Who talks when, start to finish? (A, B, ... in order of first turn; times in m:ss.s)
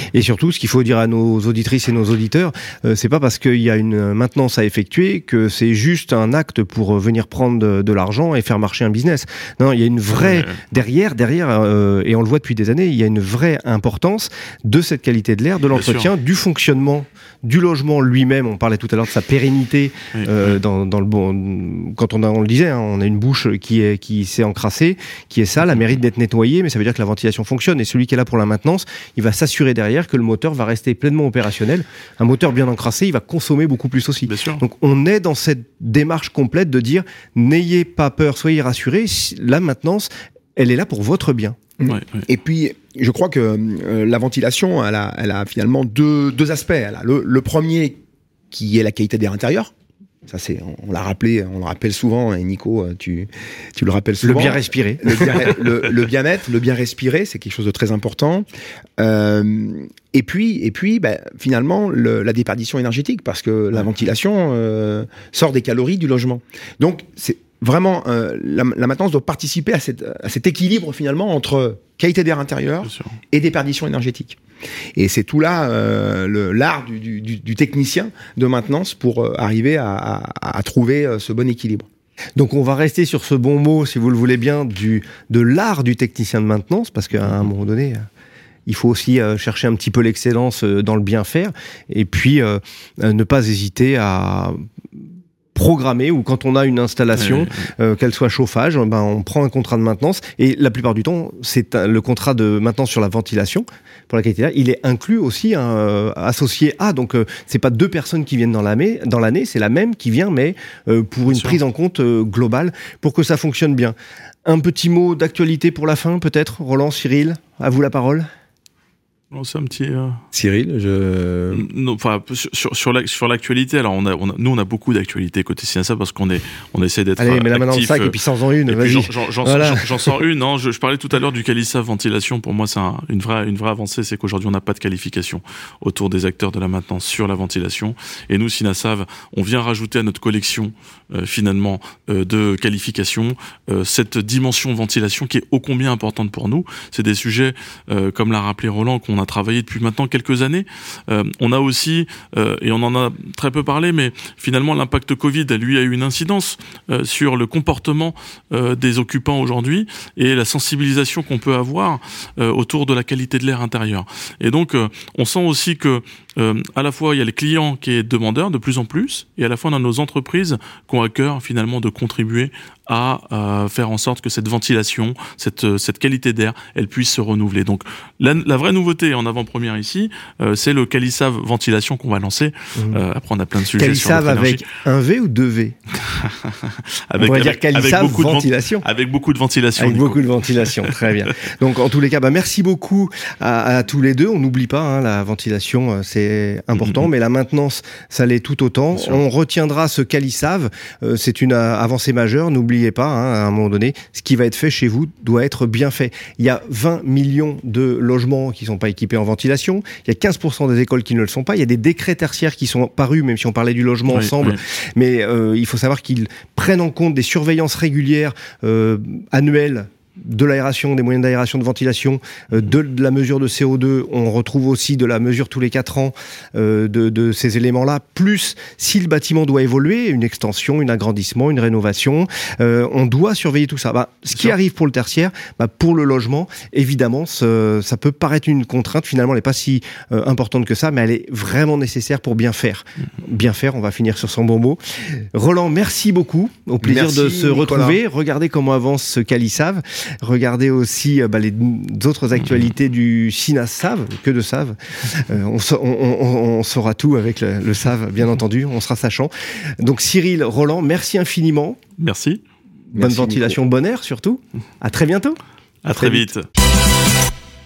0:00.1-0:41.6 A
0:10.1-0:10.6 B
0:15.8-0:16.1 B
0:20.1-0:20.6 B
0:34.3-0:34.6 B
0:41.8-0:48.0 C
0:41.9-0:42.2 B
0:48.5-0:49.7 C
0:50.3-0:58.5 C
0:54.2-0:55.4 A
0:59.0-1:14.4 C
1:15.0-1:21.9 C
1:22.4-1:28.1 A
1:28.7-1:34.6 A
1:35.6-1:58.3 A
1:37.2-1:37.6 B
1:51.3-1:51.6 B
1:59.3-2:00.2 B
2:00.3-2:01.6 C
2:01.5-2:08.2 B
2:07.2-2:10.1 A
2:08.7-3:04.6 B
3:02.8-3:03.0 A
3:03.8-3:05.8 A
3:06.0-3:11.0 B
3:07.2-3:08.9 A
3:09.8-4:21.8 A
3:16.8-3:17.1 B
3:34.1-3:34.6 B
4:06.8-4:08.0 C
4:22.0-4:22.4 B
4:22.9-4:23.6 C
4:23.0-4:25.4 A
4:25.8-4:26.4 B
4:26.0-4:26.3 A